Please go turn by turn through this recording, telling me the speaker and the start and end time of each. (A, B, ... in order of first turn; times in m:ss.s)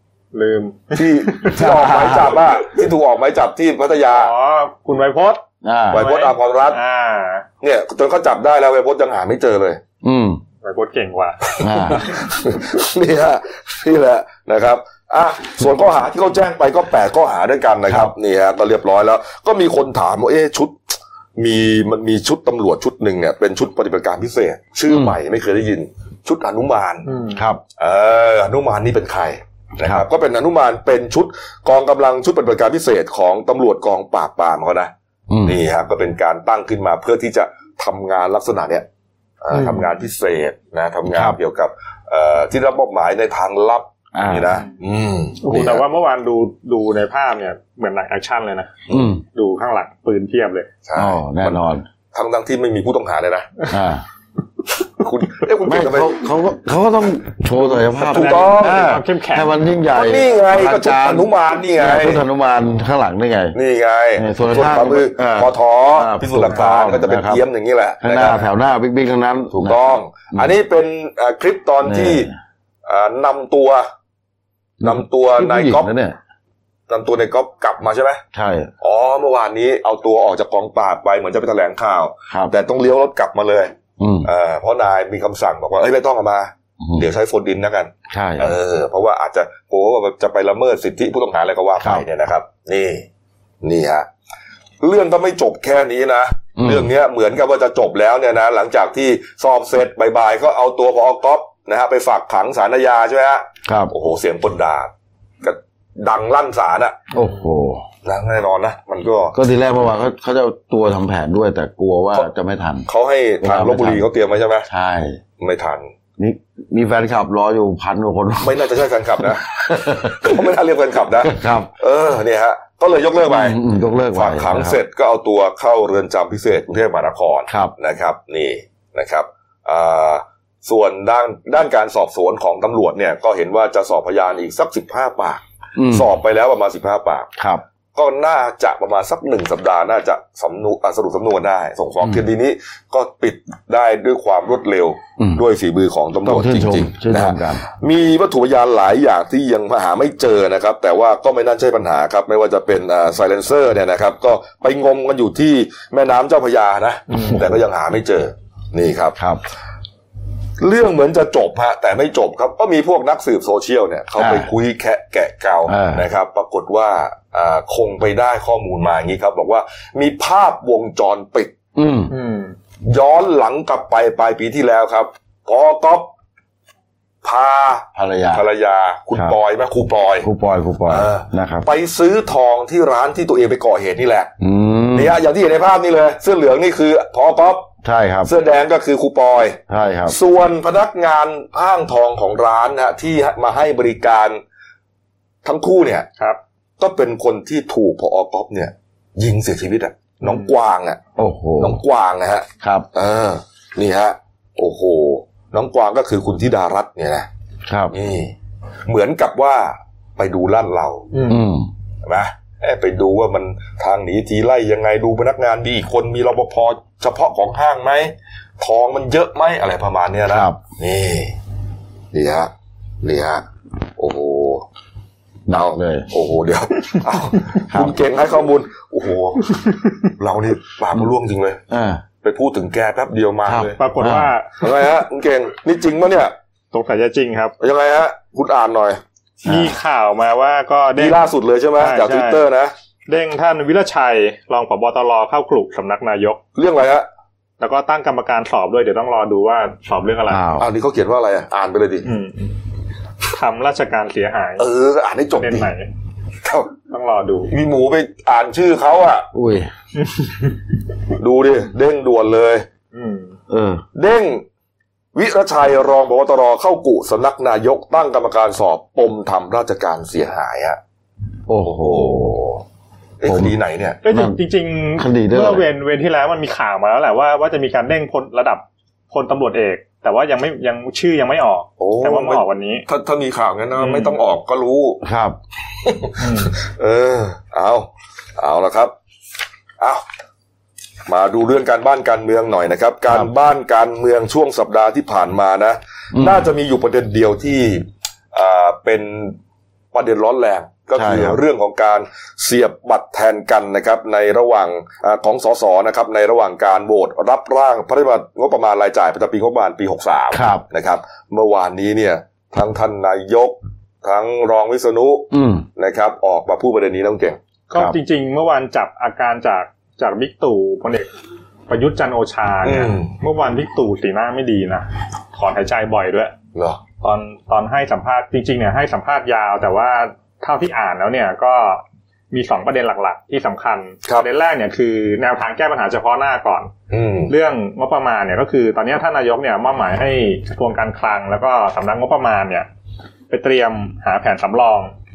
0:00.3-0:01.6 A
0:00.9-0:04.3 B
0:01.5-0:02.4 C
0:04.1-0:05.4 A
0:05.6-0:06.1 C
0:05.9-0:06.8 B
0:05.9-0:07.4 A
0:07.6-0:09.8 B
0:10.0-0:10.4 C
0:10.6-0:11.4 A
0:11.6-0:12.0 C
0:11.9-0:27.0 B
0:17.9-0:18.1 C
0:24.9-0:25.2 C
0:27.0-0:27.4 A
0:27.3-0:27.6 C
0:27.8-0:34.9 B
0:35.3-0:35.6 C
0:35.4-0:38.8 B
0:39.4-0:45.8 B
0:41.1-0:41.4 C
0:44.1-0:44.5 C
0:45.4-0:48.8 A
0:48.9-0:49.2 C
0:49.3-0:50.7 A
0:50.8-0:53.5 B
0:51.0-0:51.8 C
0:53.7-0:54.0 C
0:55.0-0:56.2 B
0:55.6-1:03.6 C
0:58.0-0:59.5 A
0:58.1-0:58.8 B
0:59.9-1:02.2 B
1:03.5-1:08.4 B
1:04.2-1:07.4 C
1:08.0-1:10.5 C
1:09.5-1:12.3 B
1:11.8-1:12.3 C
1:12.8-1:13.8 B
1:14.8-1:16.2 C
1:14.8-1:15.9 B
1:16.9-1:18.2 B
1:18.3-1:18.7 C
1:18.8-1:33.0 B
1:24.0-1:24.3 C
1:26.8-1:27.1 C
1:28.1-1:28.5 C
1:33.6-1:34.0 B
1:34.8-1:44.9 B
1:36.6-1:36.9 C
1:43.6-1:43.9 C
1:45.4-1:47.0 B
1:47.1-1:47.8 C
1:48.0-1:49.3 B
1:49.3-1:52.9 C
1:52.9-1:54.7 B
1:53.4-1:54.0 C
1:54.7-1:55.2 C
1:55.4-1:55.9 B
1:56.2-2:00.5 C
1:58.4-2:03.6 B
2:01.2-2:01.7 C
2:03.3-2:04.8 C
2:04.1-2:17.3 B
2:15.8-2:16.1 C
2:17.4-2:17.6 C
2:17.9-2:39.2 B
2:25.2-2:25.4 C
2:26.2-2:27.6 C
2:39.2-2:39.4 C
2:40.6-2:51.5 B
2:44.2-2:44.5 C
2:45.7-2:46.0 C
2:51.7-2:52.1 C
2:52.1-2:52.5 A
2:52.8-2:56.1 B
2:57.2-3:00.3 B
2:57.9-2:58.4 C
3:00.2-3:01.6 C
3:00.8-3:04.3 B
3:04.4-3:05.2 C
3:04.9-3:07.7 B
3:07.8-3:08.3 C
3:08.2-3:14.4 B
3:09.7-3:10.1 C
3:15.4-3:16.1 B
3:16.8-3:21.0 B
3:20.2-3:20.5 A
3:21.2-3:21.8 C
3:21.6-3:27.3 B
3:22.6-3:22.8 C
3:27.7-3:27.9 C
3:27.9-3:28.3 B
3:28.9-3:31.1 B
3:31.1-3:31.4 A
3:31.3-3:31.7 C
3:32.0-3:41.3 B
3:40.3-3:40.6 C
3:42.1-3:43.4 B
3:44.0-3:44.6 B
3:45.5-3:46.1 C
3:45.5-3:49.6 B
3:47.7-3:48.0 C
3:50.2-3:51.6 B
3:51.7-3:52.0 C
3:52.2-3:53.8 B
3:53.5-3:54.3 C
3:53.8-3:54.7 A
3:54.6-3:56.3 B
3:56.7-3:57.5 A
3:57.6-3:59.0 B
3:59.4-4:02.4 A
3:59.4-3:59.7 C
4:01.0-4:02.7 B
4:03.1-4:06.4 A
4:06.6-4:07.0 B
4:07.6-4:10.4 A
4:10.3-4:10.6 C
4:10.6-4:12.1 B
4:12.0-4:12.5 A
4:13.3-4:14.6 A
4:14.6-4:15.7 B
4:15.4-4:15.9 A
4:16.4-4:16.7 B
4:16.9-4:17.5 A
4:17.5-4:19.3 B
4:19.3-4:19.7 C
4:20.0-4:20.5 A
4:21.2-4:22.6 B
4:22.9-4:23.4 A
4:23.5-4:23.8 C
4:23.9-4:24.4 B
4:25.1-4:30.8 B
4:31.5-4:32.6 C
4:31.6-4:32.2 B
4:33.2-4:34.0 B
4:33.2-4:33.5 C
4:34.0-4:42.8 A
4:34.1-4:34.4 C
4:35.0-4:35.6 C
4:41.8-4:45.0 B
4:43.8-4:44.2 A
4:45.0-4:45.4 C
4:45.8-4:48.9 B
4:46.2-4:46.5 A
4:51.1-4:59.4 B
4:56.1-4:56.5 C
4:59.9-5:17.4 B
5:01.0-5:01.4 C
5:10.3-5:10.6 C
5:15.3-5:15.6 C
5:17.7-5:21.1 A
5:21.7-5:26.3 A
5:22.6-5:23.1 B
5:26.5-5:26.8 B
5:27.0-5:36.7 A
5:36.9-5:37.3 B
5:37.3-5:42.7 A
5:43.3-5:44.9 A